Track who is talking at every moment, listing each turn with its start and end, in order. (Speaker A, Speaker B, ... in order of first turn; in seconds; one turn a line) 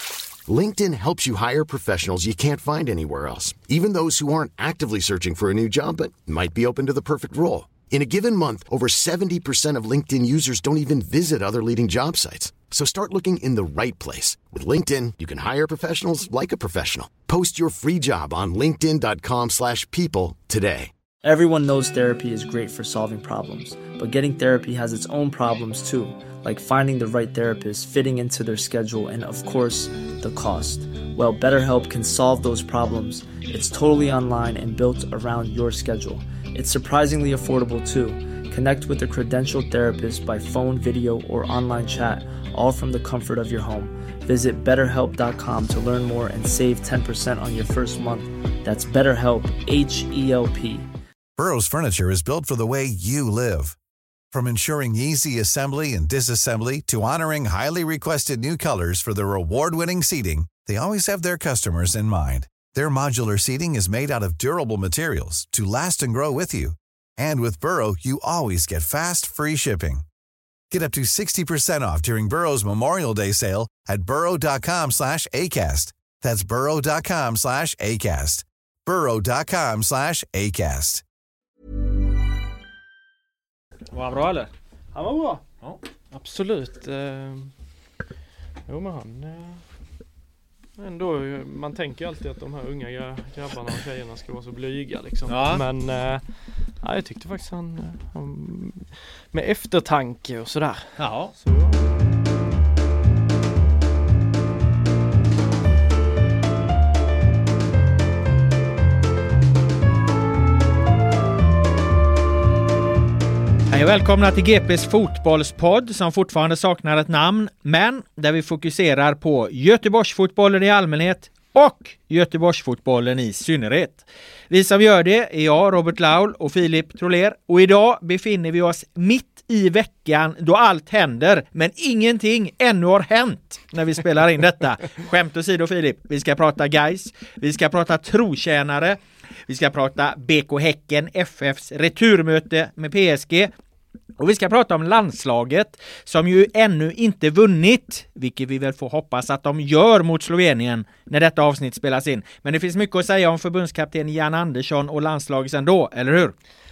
Speaker A: 0.5-20.9
Speaker B: 21.2-50.9
Speaker C: 51.4-53.8
Speaker C: 54.3-70.0
Speaker C: 70.7-81.0
Speaker D: 83.9-84.5
Speaker E: 84.9-85.4
Speaker E: 86.1-87.5
Speaker E: 88.7-89.6
Speaker E: 90.8-96.2
Speaker D: 95.3-95.6
Speaker E: 96.8-101.8
Speaker D: 101.0-101.3
Speaker D: 113.7-143.5
Speaker D: 144.2-156.3